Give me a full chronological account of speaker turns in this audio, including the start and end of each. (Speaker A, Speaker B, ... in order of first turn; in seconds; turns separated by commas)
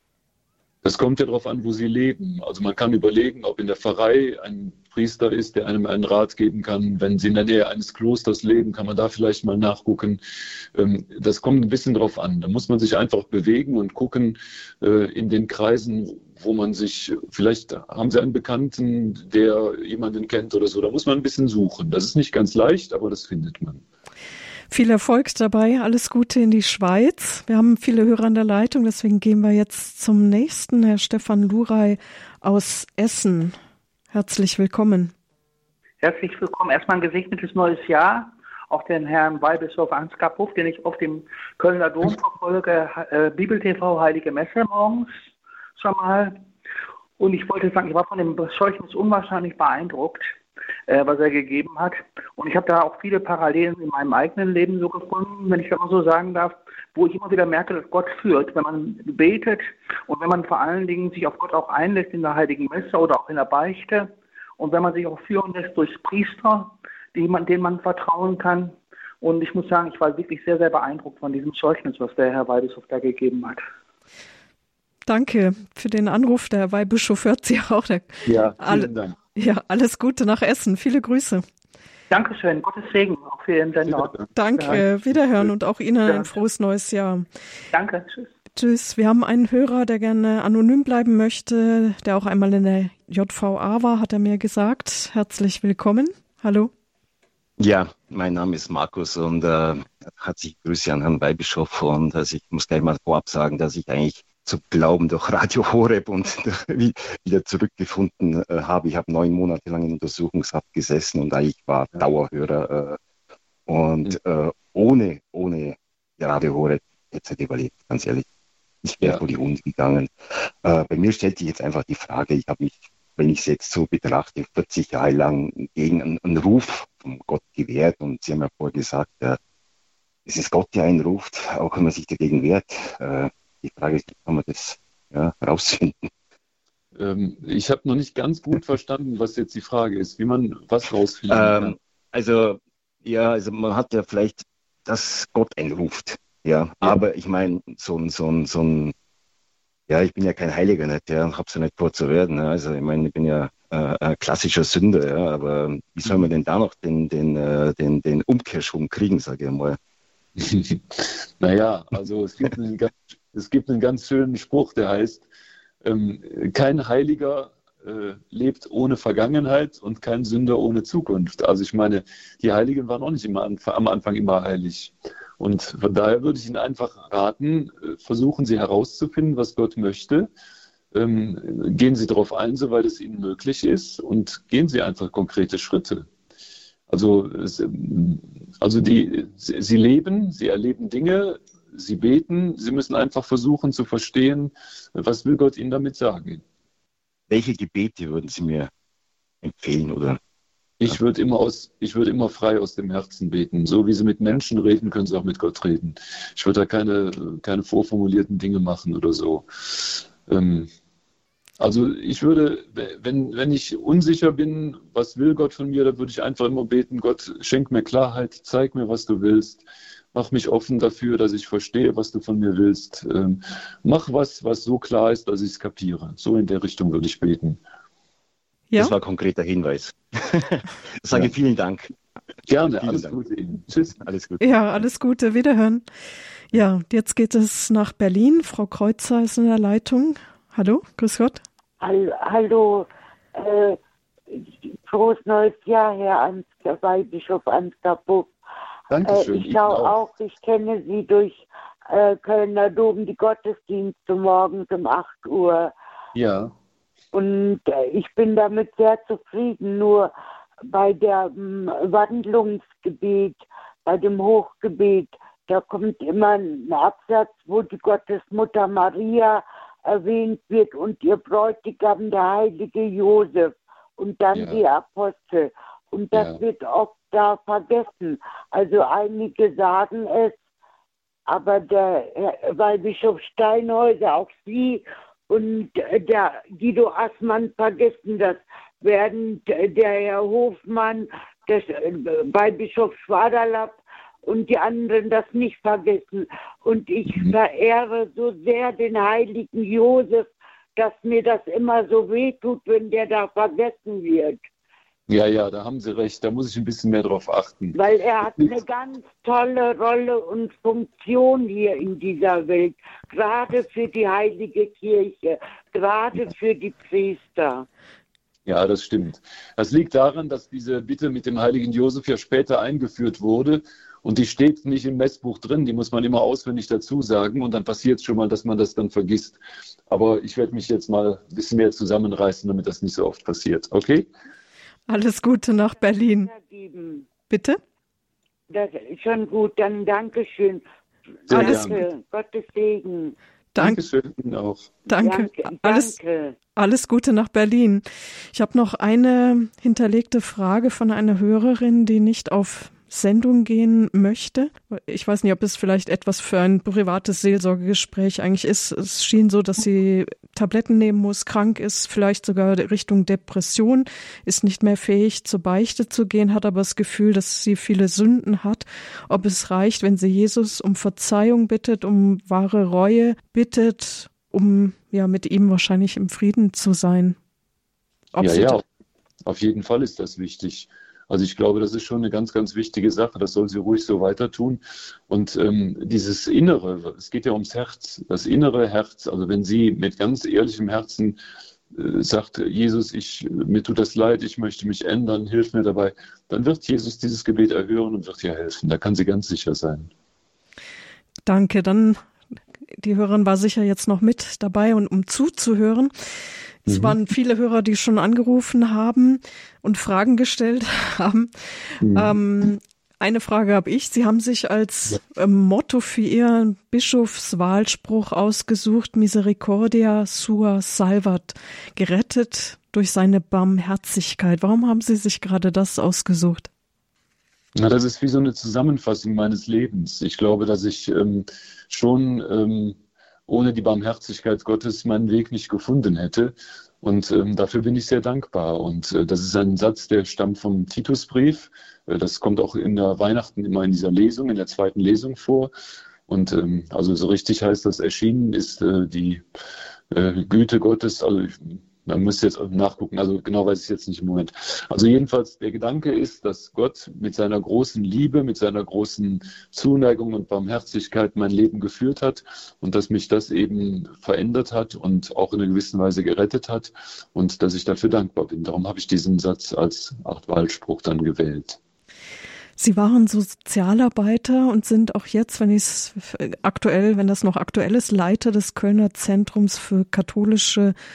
Speaker A: 0.8-10.2, Speaker A: 10.7-23.8, Speaker B: 24.7-33.5, Speaker B: 34.1-35.1, Speaker C: 36.0-45.1, Speaker C: 45.8-46.4, Speaker C: 47.2-50.3, Speaker C: 50.9-73.6, Speaker B: 75.1-81.5, Speaker A: 78.2-79.2, Speaker C: 82.1-84.8, Speaker A: 83.8-84.3, Speaker B: 84.3-87.2, Speaker C: 87.7-88.3, Speaker B: 88.5-96.7, Speaker D: 97.6-113.0, Speaker D: 113.7-118.2, Speaker D: 118.8-129.4, Speaker D: 130.2-136.1, Speaker A: 136.9-141.8, Speaker D: 141.3-148.9, Speaker D: 149.9-159.8, Speaker A: 160.4-165.2, Speaker A: 165.8-180.3, Speaker A: 180.9-186.1, Speaker A: 186.9-196.4, Speaker D: 197.3-198.7, Speaker D: 199.4-200.2, Speaker A: 200.8-210.7, Speaker A: 211.6-227.6, Speaker D: 228.8-231.9, Speaker A: 232.5-234.0, Speaker D: 232.8-233.1, Speaker D: 234.0-234.8, Speaker B: 234.4-235.8, Speaker B: 236.5-241.4, Speaker E: 241.8-243.8, Speaker E: 244.3-248.3, Speaker A: 248.9-250.0, Speaker E: 249.0-255.7, Speaker A: 256.1-256.5, Speaker E: 257.1-260.1, Speaker E: 260.7-280.4, Speaker A: 274.3-274.6, Speaker A: 276.1-276.4, Speaker E: 281.3-304.4, Speaker A: 297.1-297.4, Speaker A: 305.1-307.8, Speaker E: 307.7-317.7, Speaker A: 318.4-334.1, Speaker B: 334.9-336.3, Speaker E: 336.3-337.1, Speaker B: 337.3-337.6, Speaker E: 338.5-340.6, Speaker E: 341.3-343.1, Speaker A: 341.3-341.8, Speaker B: 341.4-341.7, Speaker A: 343.6-344.7, Speaker B: 344.9-345.9, Speaker E: 345.0-346.4, Speaker B: 346.6-377.2, Speaker B: 378.1-378.6, Speaker A: 378.2-378.6, Speaker A: 379.2-391.2, Speaker A: 391.7-399.9, Speaker B: 401.3-402.0, Speaker B: 402.8-405.9, Speaker B: 406.6-426.5, Speaker A: 406.7-406.9, Speaker A: 411.8-412.1, Speaker A: 427.6-445.5, Speaker A: 446.1-449.2, Speaker A: 449.9-471.6, Speaker B: 472.6-480.7